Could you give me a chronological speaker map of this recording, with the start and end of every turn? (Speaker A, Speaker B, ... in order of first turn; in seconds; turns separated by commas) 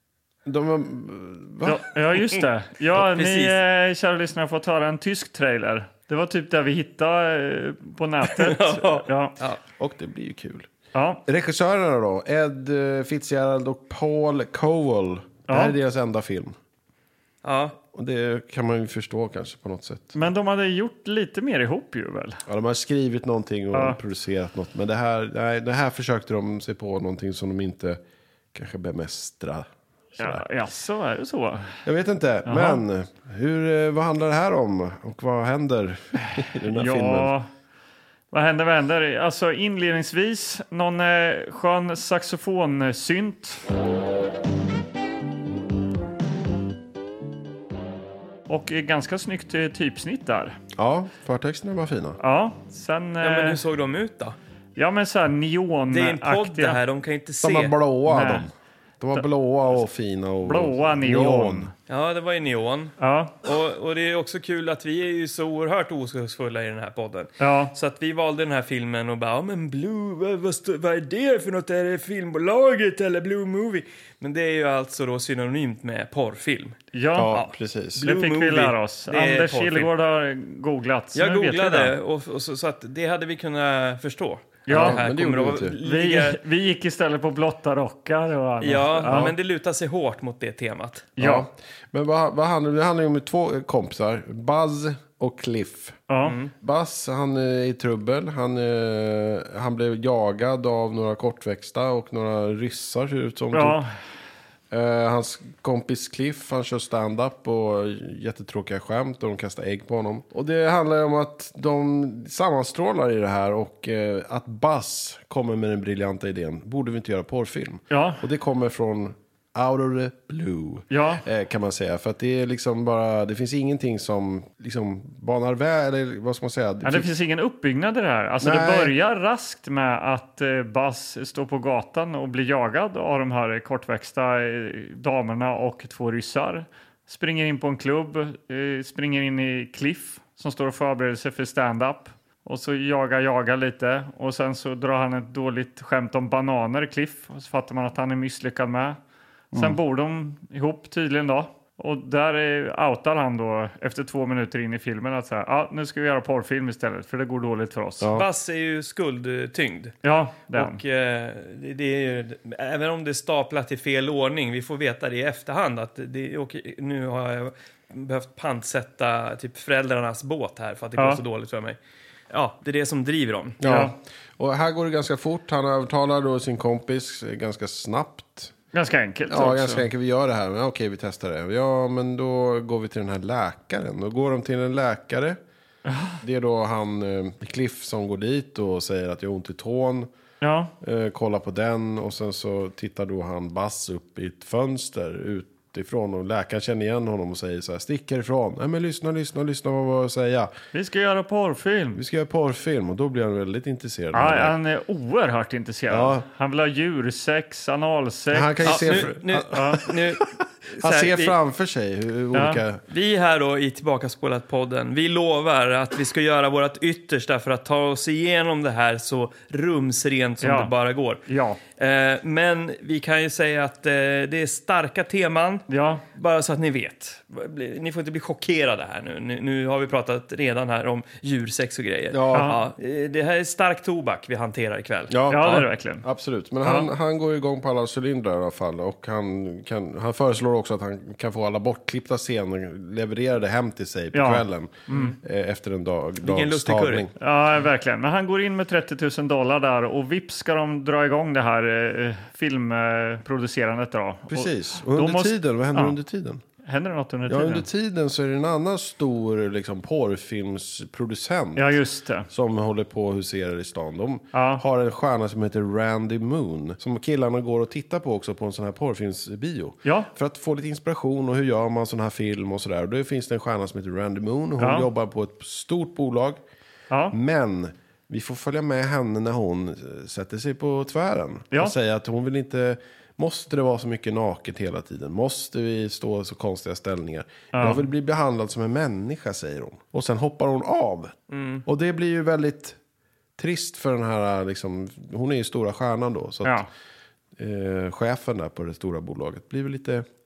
Speaker A: 0.4-1.9, Speaker B: 1.6-9.4, Speaker C: 3.0-3.6, Speaker C: 8.3-9.6, Speaker A: 9.8-10.7, Speaker B: 10.9-11.2, Speaker A: 11.2-16.6, Speaker B: 15.5-15.7, Speaker C: 17.4-17.8, Speaker A: 17.9-20.1, Speaker B: 20.1-22.4, Speaker A: 22.5-28.0, Speaker B: 23.7-24.0, Speaker A: 28.5-30.4, Speaker B: 30.2-31.8, Speaker A: 31.9-37.3, Speaker B: 32.5-32.8, Speaker B: 36.4-37.5, Speaker B: 38.3-43.6, Speaker B: 48.5-50.6, Speaker A: 50.8-52.2, Speaker B: 52.2-53.6, Speaker C: 53.2-54.4, Speaker B: 54.8-56.8, Speaker C: 55.9-57.7, Speaker A: 57.4-61.7, Speaker B: 58.1-58.5, Speaker B: 60.4-61.7, Speaker C: 61.9-76.8, Speaker B: 63.0-63.4, Speaker B: 67.4-67.7, Speaker B: 76.9-77.4, Speaker A: 77.1-78.0, Speaker C: 77.3-79.9, Speaker B: 78.0-81.9, Speaker C: 81.1-86.4, Speaker B: 84.7-85.0, Speaker A: 84.7-85.7, Speaker B: 85.8-89.3, Speaker C: 88.6-91.1, Speaker A: 89.1-89.3, Speaker B: 91.2-91.5, Speaker A: 91.2-96.0, Speaker B: 96.1-96.4, Speaker C: 96.2-96.5, Speaker A: 96.5-103.8, Speaker B: 103.5-103.9, Speaker A: 104.7-127.1, Speaker B: 117.9-118.2, Speaker B: 120.9-121.2, Speaker B: 126.8-149.0, Speaker A: 128.4-128.9, Speaker A: 149.5-149.8, Speaker B: 149.5-158.1, Speaker A: 158.0-158.2, Speaker C: 158.1-159.9, Speaker B: 160.0-160.8, Speaker C: 160.5-171.8, Speaker C: 172.3-173.6, Speaker A: 173.6-178.5, Speaker B: 173.6-173.9, Speaker B: 178.7-179.8, Speaker A: 179.3-185.4, Speaker B: 185.9-186.2, Speaker A: 186.2-190.1, Speaker B: 190.4-190.7, Speaker A: 190.8-200.5, Speaker B: 200.7-202.0, Speaker A: 201.9-204.5, Speaker B: 204.1-209.9, Speaker A: 205.9-206.2, Speaker A: 208.3-212.8, Speaker C: 208.6-210.2, Speaker C: 210.8-211.3, Speaker B: 212.3-212.6, Speaker C: 212.9-221.2, Speaker B: 220.4-220.7, Speaker B: 221.2-221.6, Speaker C: 221.8-235.1, Speaker B: 225.7-226.0, Speaker A: 232.1-232.6, Speaker B: 232.3-232.6, Speaker A: 235.1-247.1, Speaker B: 235.3-236.1, Speaker B: 236.6-236.9, Speaker B: 244.1-245.1, Speaker C: 244.9-245.1, Speaker C: 246.2-247.1, Speaker B: 247.2-256.0, Speaker A: 254.3-256.4, Speaker B: 256.6-257.6, Speaker A: 257.3-261.7, Speaker B: 261.6-262.3, Speaker A: 262.3-276.4, Speaker B: 264.3-264.6, Speaker B: 274.6-274.9, Speaker B: 276.9-277.1, Speaker A: 277.1-292.8, Speaker B: 287.5-287.8, Speaker C: 291.3-291.6, Speaker A: 293.4-296.7, Speaker A: 297.4-300.0